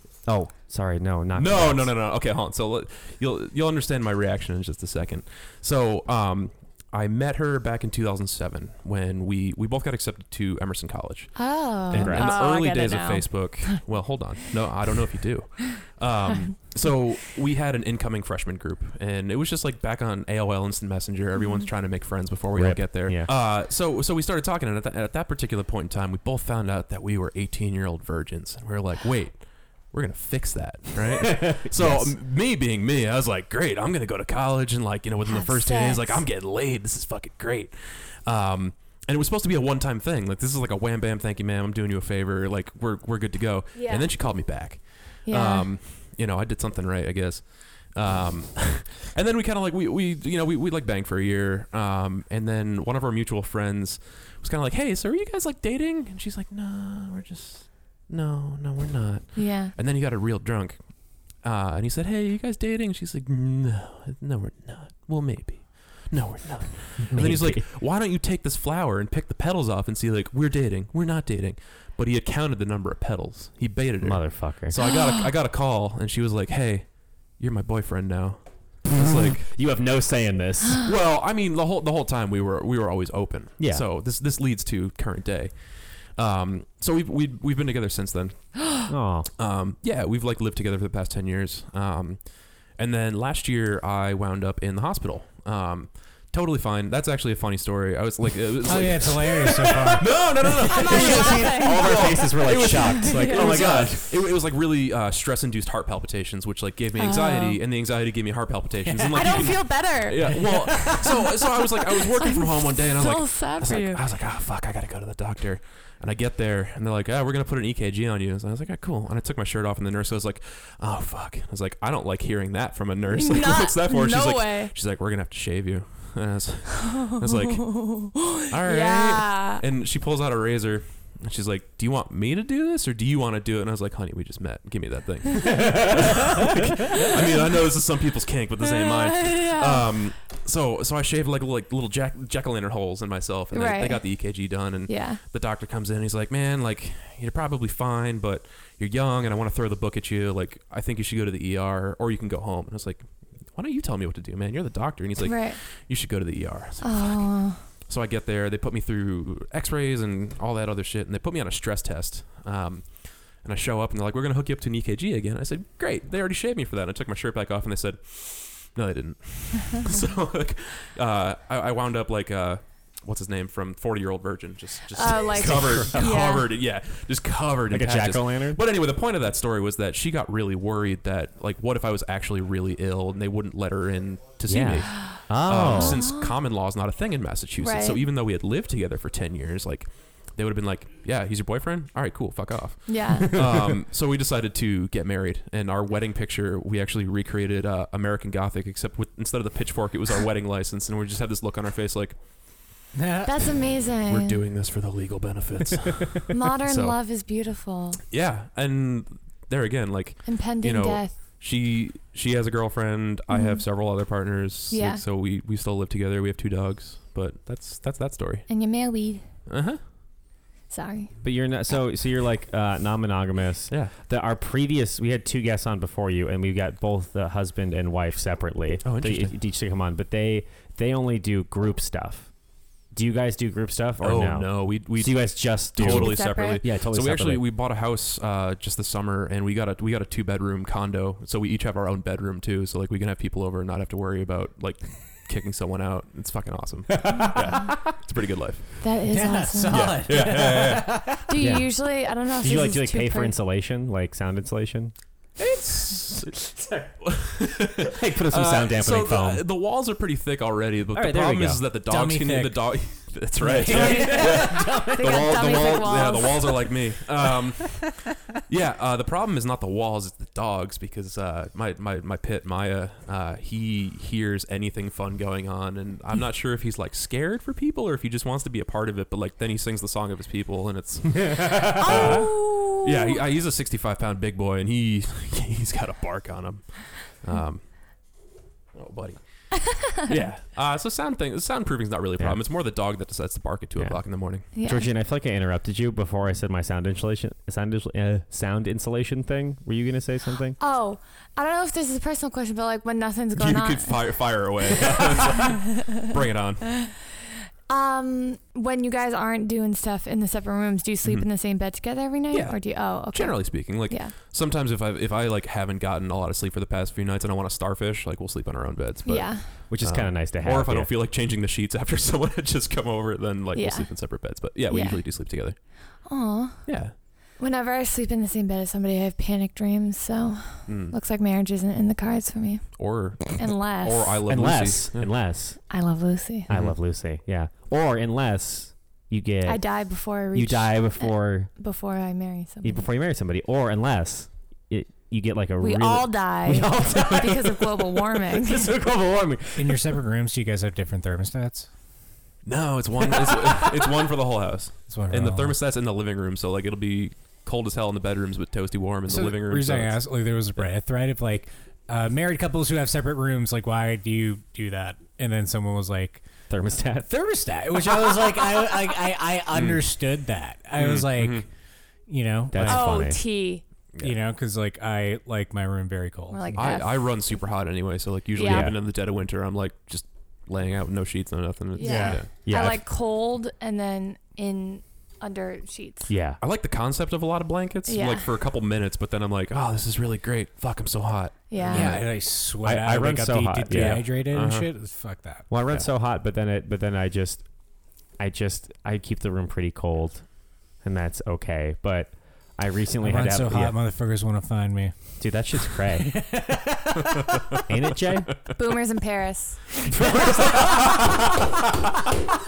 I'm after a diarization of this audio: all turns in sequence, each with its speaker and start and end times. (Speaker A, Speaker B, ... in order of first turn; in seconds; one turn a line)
Speaker A: 0.2-1.9
Speaker B: 1.4-79.5
Speaker C: 11.4-13.8
Speaker A: 11.9-12.3
Speaker A: 22.6-23.3
Speaker A: 31.2-32.1
Speaker C: 35.2-36.2
Speaker C: 43.7-44.1
Speaker C: 45.2-45.7
Speaker C: 59.4-59.7
Speaker A: 67.0-67.7
Speaker A: 74.0-74.8
Speaker A: 78.8-80.8
Speaker B: 80.7-88.6
Speaker A: 83.6-83.8
Speaker A: 88.9-89.3
Speaker B: 89.4-202.2
Speaker D: 98.6-100.3
Speaker C: 100.7-103.7
Speaker A: 100.7-104.0
Speaker C: 107.0-107.6
Speaker C: 109.0-114.0
Speaker D: 109.1-109.4
Speaker D: 110.3-111.0
Speaker C: 123.1-124.7
Speaker C: 127.3-129.6
Speaker C: 136.9-137.6
Speaker C: 138.6-139.9
Speaker C: 143.5-145.2
Speaker C: 155.2-155.6
Speaker C: 156.8-157.6
Speaker C: 174.9-176.5
Speaker A: 175.4-176.1
Speaker A: 177.7-178.6
Speaker A: 184.5-186.0
Speaker C: 185.7-186.3
Speaker C: 187.6-188.0
Speaker C: 192.9-193.5
Speaker D: 202.9-203.5
Speaker C: 203.2-204.4
Speaker B: 204.1-207.0
Speaker C: 206.3-208.0
Speaker B: 208.1-218.5
Speaker C: 210.3-211.2
Speaker C: 213.3-213.6
Speaker C: 214.7-215.0
Speaker C: 218.5-219.2
Speaker B: 219.5-219.8
Speaker C: 220.7-221.2
Speaker A: 221.2-232.3
Speaker B: 228.8-229.3
Speaker A: 232.9-237.4
Speaker B: 234.0-248.8
Speaker C: 235.8-236.6
Speaker A: 246.9-247.5
Speaker C: 248.8-250.2
Speaker D: 249.1-251.3
Speaker B: 249.7-251.1
Speaker C: 251.3-253.3
Speaker A: 251.4-251.8
Speaker A: 252.4-254.9
Speaker B: 255.4-256.5
Speaker A: 256.6-256.8
Speaker B: 257.0-287.6
Speaker A: 257.8-259.4
Speaker A: 260.9-261.7
Speaker D: 261.9-262.8
Speaker A: 263.4-266.3
Speaker D: 263.4-265.0
Speaker C: 263.7-266.7
Speaker A: 281.2-282.2
Speaker C: 281.8-283.2
Speaker B: 288.7-294.5
Speaker C: 289.7-290.1
Speaker A: 293.8-300.6
Speaker C: 294.6-294.9
Speaker C: 300.6-305.9
Speaker B: 303.4-306.8
Speaker C: 307.7-314.1
Speaker B: 312.3-325.6
Speaker C: 319.1-319.5
Speaker A: 319.7-320.9
Speaker C: 323.6-325.0
Speaker C: 326.1-326.8
Speaker B: 326.7-326.9
Speaker C: 327.4-334.2
Speaker B: 330.7-331.0
Speaker B: 332.8-335.1
Speaker A: 334.3-335.6
Speaker C: 335.7-336.5
Speaker A: 336.5-339.7
Speaker B: 336.5-336.8
Speaker C: 339.4-342.9
Speaker A: 340.3-341.5
Speaker A: 342.6-349.9
Speaker C: 345.6-348.7
Speaker D: 349.6-351.7
Speaker B: 352.4-360.0
Speaker D: 354.9-355.5
Speaker D: 359.1-366.2
Speaker A: 366.5-367.1
Speaker D: 367.0-371.4
Speaker B: 369.5-369.9
Speaker B: 370.8-371.5
Speaker D: 372.1-373.1
Speaker A: 372.5-373.2
Speaker C: 372.7-373.6
Speaker D: 374.0-376.4
Speaker C: 376.3-377.0
Speaker B: 376.5-382.3
Speaker C: 378.4-378.7
Speaker A: 378.4-378.8
Speaker C: 381.8-386.1
Speaker D: 381.8-382.2
Speaker A: 382.4-382.8
Speaker A: 386.1-386.4
Speaker B: 386.4-392.1
Speaker C: 387.9-388.3
Speaker C: 391.5-392.0
Speaker D: 391.7-395.5
Speaker A: 392.6-394.1
Speaker B: 393.7-394.7
Speaker A: 395.5-397.5
Speaker A: 398.2-403.8
Speaker D: 403.0-405.0
Speaker A: 405.2-406.2
Speaker D: 406.0-407.5
Speaker B: 407.2-407.6
Speaker A: 407.7-408.4
Speaker C: 408.6-409.8
Speaker A: 410.0-411.2
Speaker B: 410.6-410.9